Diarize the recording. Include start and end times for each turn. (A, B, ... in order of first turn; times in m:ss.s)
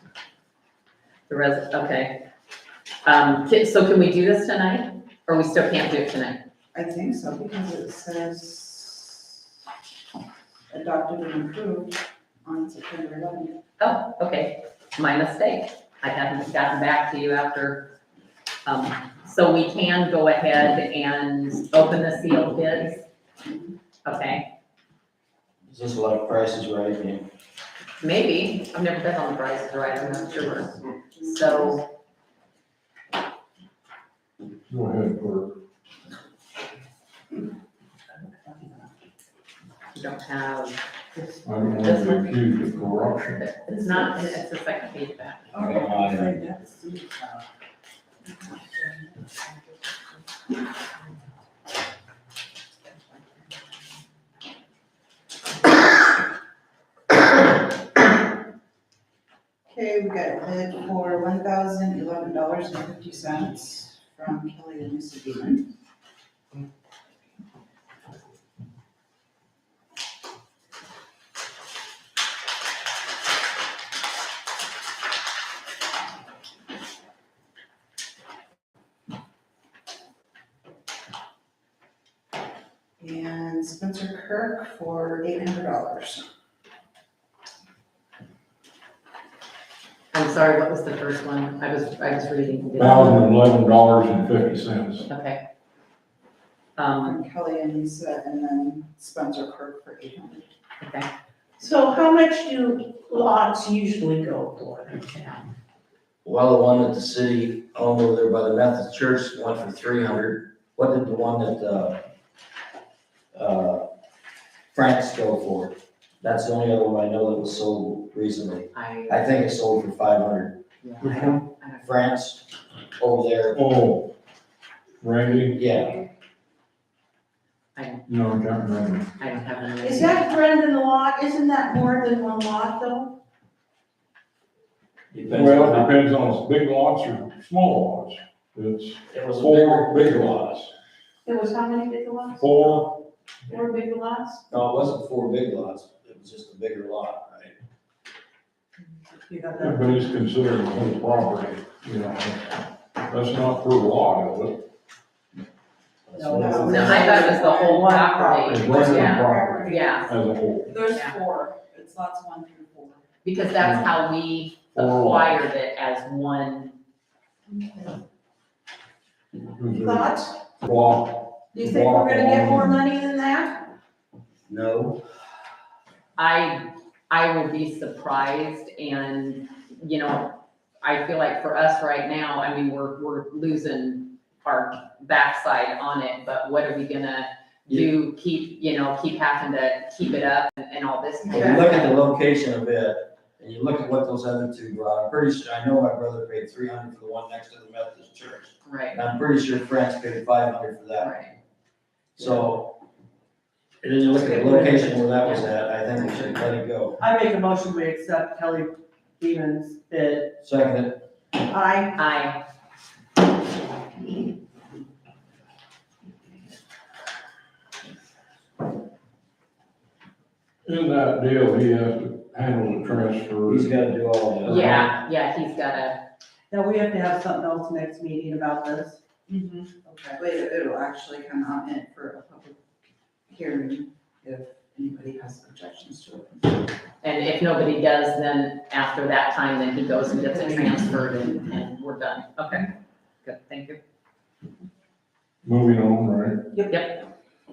0:01.3-0:02.2 A
0:03.0-0:06.4 A
0:06.7-0:09.4 B
0:10.7-0:13.6 B
0:13.8-0:17.9 A
0:18.6-0:23.0 A
0:23.4-0:23.7 B
0:24.0-0:24.5 A
0:25.7-0:27.2 C
0:28.0-0:31.8 A
0:29.9-0:31.8 B
0:34.7-0:35.6 D
0:39.9-0:40.8 A
0:41.4-0:43.5 D
0:41.8-0:42.4 A
0:43.4-0:45.7 A
0:45.5-0:47.0 E
0:45.6-0:46.4 C
0:45.9-0:47.4 B
0:48.3-0:49.9 B
0:59.7-1:05.6 B
1:23.0-1:26.2 B
1:30.1-1:33.3 A
1:32.8-1:35.1 D
1:35.1-1:35.4 A
1:36.8-1:37.2 A
1:37.0-1:40.5 B
1:40.8-1:41.1 A
1:41.6-1:45.2 F
1:46.2-1:52.0 C
1:53.3-1:53.8 C
1:54.7-2:00.6 C
1:58.7-1:59.3 A
2:00.8-2:01.9 A
2:01.0-2:01.4 D
2:01.8-2:03.6 C
2:03.5-2:04.1 D
2:05.0-2:05.6 D
2:05.5-2:06.0 C
2:07.7-2:08.0 A
2:08.1-2:09.1 D
2:09.2-2:10.3 A
2:09.8-2:13.1 F
2:15.1-2:15.9 C
2:15.2-2:20.7 D
2:19.1-2:20.6 C
2:21.2-2:22.4 F
2:22.4-2:23.0 D
2:23.5-2:24.4 F
2:24.5-2:27.5 C
2:29.1-2:30.0 E
2:29.6-2:34.6 D
2:36.1-2:37.2 C
2:36.1-2:39.4 E
2:36.2-2:38.0 B
2:36.6-2:40.1 A
2:38.5-2:40.9 D
2:38.8-2:40.0 B
2:40.7-2:43.0 B
2:43.2-2:46.8 A
2:43.6-2:43.9 D
2:44.7-2:45.3 D
2:47.5-2:47.9 B
2:49.5-2:52.8 D
2:51.5-2:53.6 F
2:54.5-2:55.0 C
2:56.2-3:12.0 A
3:11.3-3:21.1 C
3:18.6-3:19.0 A
3:21.0-3:21.3 A
3:22.2-3:22.7 C
3:23.8-3:27.0 C
3:24.2-3:25.0 E
3:25.2-3:26.4 A
3:27.0-3:30.3 E
3:30.4-3:31.0 C
3:31.4-3:32.0 E
3:32.0-3:32.4 A
3:40.6-3:43.8 D
3:43.5-3:44.9 C
3:44.4-3:46.0 A
3:46.5-3:49.0 E
3:49.3-3:52.6 B
3:53.3-3:56.7 B
3:57.0-4:02.7 A
4:03.2-4:03.8 A
4:05.4-4:06.6 D
4:06.7-4:07.0 A